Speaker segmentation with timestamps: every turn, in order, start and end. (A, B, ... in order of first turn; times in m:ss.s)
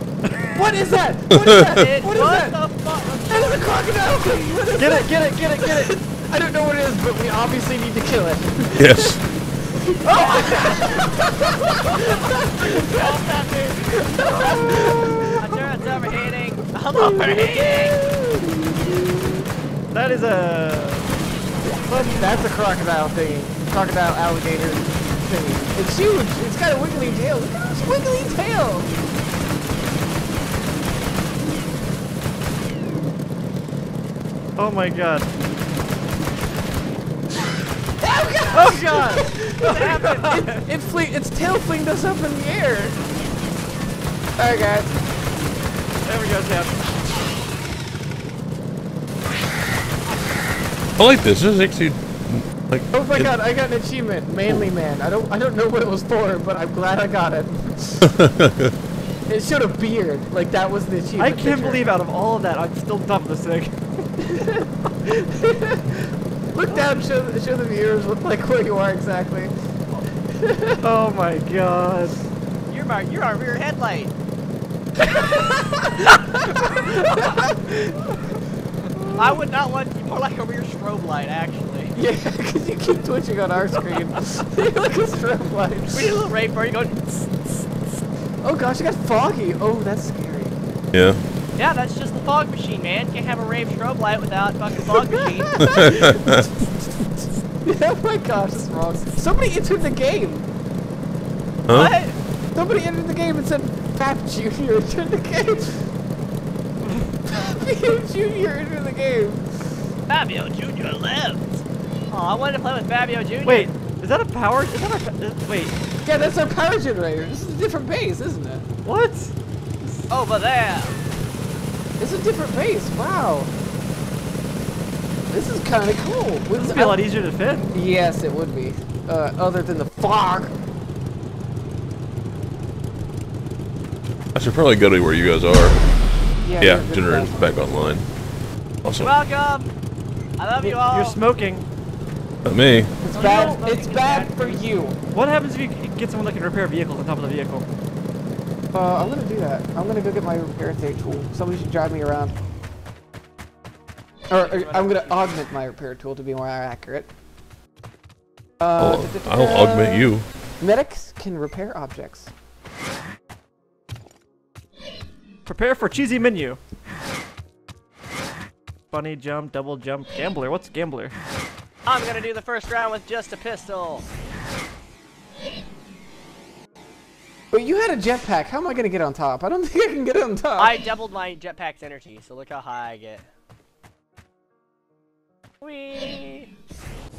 0:00.5-0:02.6 A
0:01.3-0:01.8 B
0:01.6-0:03.7 C
0:03.3-0:09.2 A
0:04.8-0:06.0 D
0:08.8-0:09.2 B
0:09.8-0:15.7 A
0:10.0-0:11.2 C
0:11.8-0:13.8 C
0:15.4-0:18.0 C
0:17.0-0:19.1 A
0:19.9-0:21.1 D
0:21.9-0:22.3 D
0:21.9-0:28.9 A
0:34.6-0:35.3 D
0:38.0-0:43.0 A
0:38.5-0:40.6 D
0:39.7-0:40.5 C
0:44.4-0:44.9 A
0:46.0-0:46.8 D
0:51.0-0:53.3 B
0:52.9-0:58.1 A
0:58.0-0:58.7 B
0:59.3-1:01.9 A
1:01.2-1:03.8 D
1:04.2-1:09.5 A
1:10.3-1:10.8 A
1:10.8-1:12.2 D
1:12.7-1:14.1 C
1:15.0-1:18.0 A
1:19.0-1:19.3 A
1:19.1-1:22.0 C
1:22.0-1:26.1 A
1:25.9-1:28.0 C
1:28.4-1:30.6 A
1:30.9-1:31.2 B
1:31.6-1:35.6 C
1:34.9-1:40.5 A
1:35.6-1:36.5 B
1:41.7-1:41.9 B
1:41.7-1:42.2 C
1:42.6-1:45.8 A
1:47.2-1:49.5 A
1:50.1-1:53.7 C
1:53.4-1:55.8 D
1:56.0-1:58.7 A
1:58.8-2:00.1 D
2:00.1-2:01.0 C
2:02.0-2:03.5 A
2:05.3-2:07.0 A
2:06.6-2:07.7 D
2:07.7-2:10.6 A
2:14.3-2:15.8 B
2:16.4-2:17.5 A
2:16.6-2:18.0 B
2:18.8-2:19.1 B
2:19.0-2:19.7 C
2:20.4-2:21.2 C
2:20.6-2:21.6 D
2:22.4-2:22.9 B
2:23.0-2:25.0 A
2:23.1-2:24.6 C
2:25.1-2:27.7 D
2:28.7-2:32.3 A
2:34.3-2:37.1 A
2:34.3-2:35.3 C
2:38.6-2:42.3 A
2:38.8-2:40.2 B
2:45.5-2:46.6 D
2:48.9-2:51.1 D
2:51.8-2:54.1 C
2:57.5-3:00.8 A
3:00.6-3:03.3 C
3:05.6-3:06.5 C